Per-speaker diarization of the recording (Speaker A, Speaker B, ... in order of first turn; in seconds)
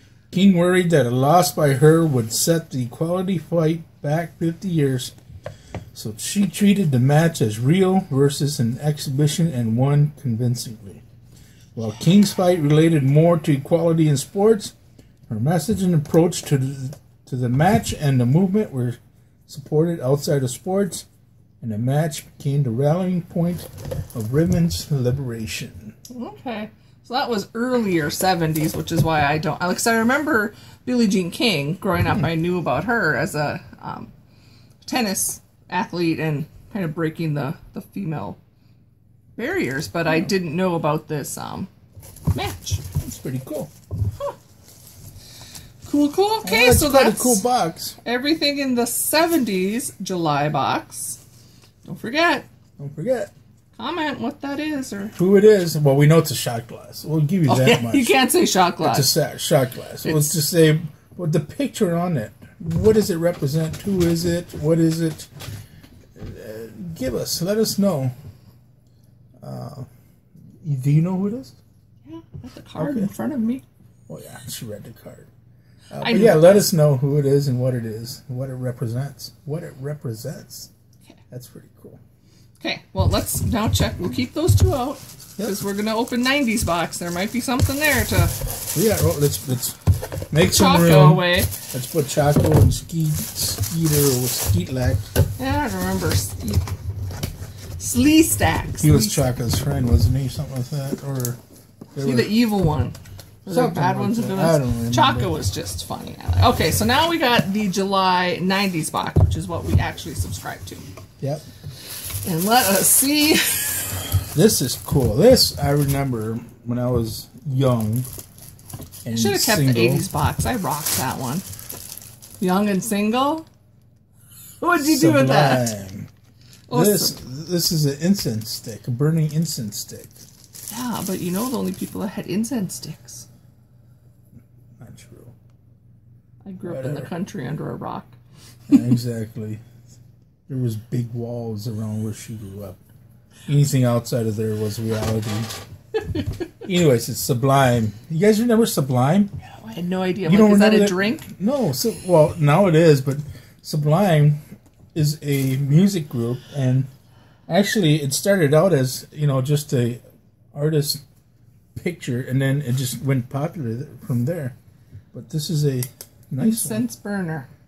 Speaker A: 0.3-5.1, 5.9-11.0, 11.7-14.7, 15.3-21.1, 21.6-25.9, 43.0-43.7, 46.4-48.0, 52.8-53.3, 55.1-58.2, 58.8-65.3, 66.2-68.1, 69.4-69.9, 70.6-71.5, 72.8-73.1, 74.1-75.3, 75.9-80.7, 81.3-82.0, 88.7-89.8, 90.3-95.1, 98.8-101.4, 101.9-102.3, 103.5-105.3, 114.3-118.1, 119.0-120.0, 124.8-126.1, 126.7-130.2, 134.8-135.3, 136.6-137.1, 138.7-139.6, 140.5-142.8, 143.4-145.5, 146.6-149.3, 150.2-154.4, 154.9-156.9, 157.5-160.0, 160.5-161.0, 161.7-164.5, 165.1-166.8
Speaker B: 26.1-34.1, 34.8-38.4, 39.4-41.7, 42.3-42.8, 45.8-47.4, 48.0-51.2, 51.9-52.5, 53.7-55.1, 57.5-59.1, 60.0-60.3, 72.0-73.6, 75.9-76.7, 82.6-88.3, 90.5-91.5, 95.4-96.6, 97.8-99.3, 102.0-110.8, 112.2-114.0, 119.1-121.4, 122.4-123.5, 124.6-125.7, 126.7-127.2, 130.7-133.2, 136.4-138.2, 149.5-151.3, 166.4-167.5